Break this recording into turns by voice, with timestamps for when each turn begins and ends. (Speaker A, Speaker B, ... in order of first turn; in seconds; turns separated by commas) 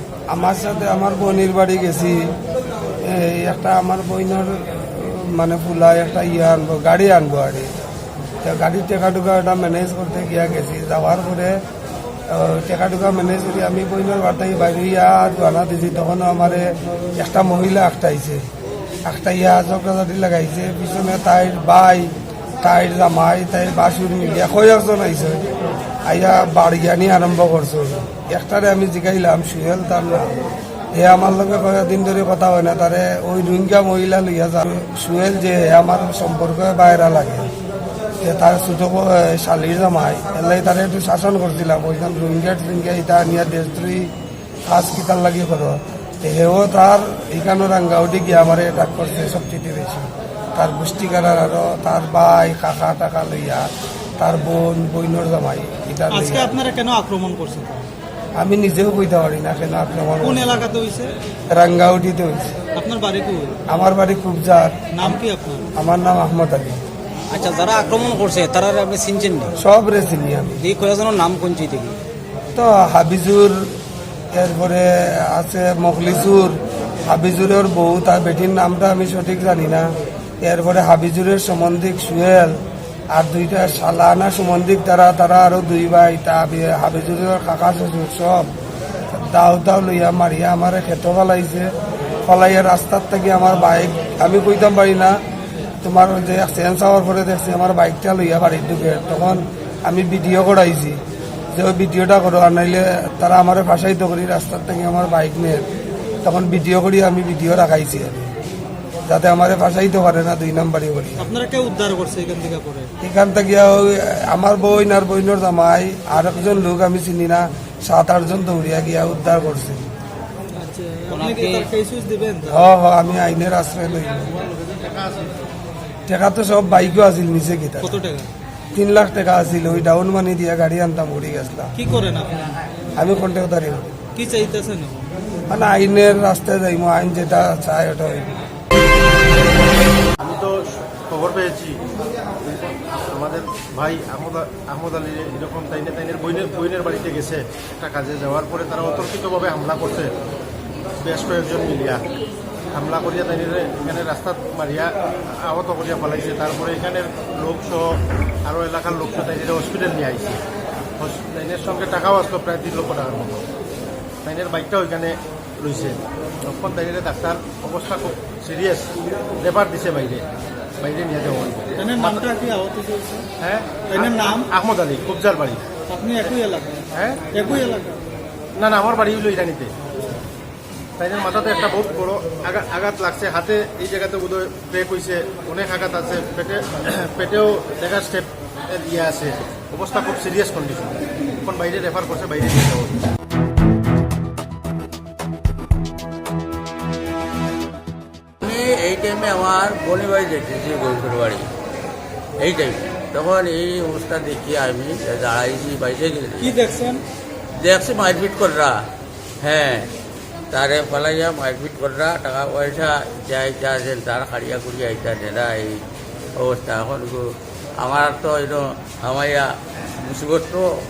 Speaker A: 0.3-2.4, Speaker A: 3.0-7.7, Speaker A: 8.4-11.6, Speaker A: 12.3-18.5, Speaker A: 19.0-25.5, Speaker A: 26.0-30.4, Speaker A: 30.9-37.5, Speaker A: 38.2-44.1, Speaker A: 44.6-56.6, Speaker B: 56.1-57.9, Speaker A: 58.4-60.6, Speaker B: 60.2-61.1, Speaker A: 61.5-62.5, Speaker B: 62.7-63.5, Speaker A: 63.7-65.1, Speaker B: 64.9-65.7, Speaker A: 65.8-66.8, Speaker C: 67.3-69.5, Speaker A: 69.5-70.6, Speaker C: 70.6-72.0, Speaker A: 72.5-73.8, Speaker A: 74.3-88.5, Speaker A: 89.1-91.7, Speaker A: 92.2-95.2, Speaker A: 95.8-101.0, Speaker A: 101.5-105.6, Speaker A: 106.2-108.3, Speaker A: 109.0-111.3, Speaker B: 111.2-112.9, Speaker A: 113.0-119.8, Speaker B: 120.5-122.6, Speaker C: 121.1-121.7, Speaker A: 122.5-124.3, Speaker D: 124.3-125.3, Speaker A: 126.1-128.0, Speaker B: 127.8-128.3, Speaker A: 128.7-131.7, Speaker B: 131.7-132.6, Speaker A: 132.9-133.8, Speaker B: 134.1-135.1, Speaker A: 135.5-138.4, Speaker D: 140.2-141.8, Speaker D: 142.4-150.1, Speaker D: 151.0-152.1, Speaker D: 152.7-160.4, Speaker D: 161.0-163.4, Speaker D: 164.2-170.2, Speaker D: 170.8-172.2, Speaker B: 171.8-173.3, Speaker D: 173.4-175.7, Speaker B: 173.9-174.5, Speaker B: 175.9-178.0, Speaker D: 176.9-177.2, Speaker D: 178.5-179.7, Speaker D: 181.0-192.9, Speaker E: 198.4-201.4, Speaker E: 202.4-206.6, Speaker B: 206.4-207.0, Speaker E: 207.6-208.8, Speaker E: 209.4-209.9, Speaker E: 210.5-215.8, Speaker E: 216.3-217.3, Speaker E: 217.8-219.5, Speaker E: 220.0-220.7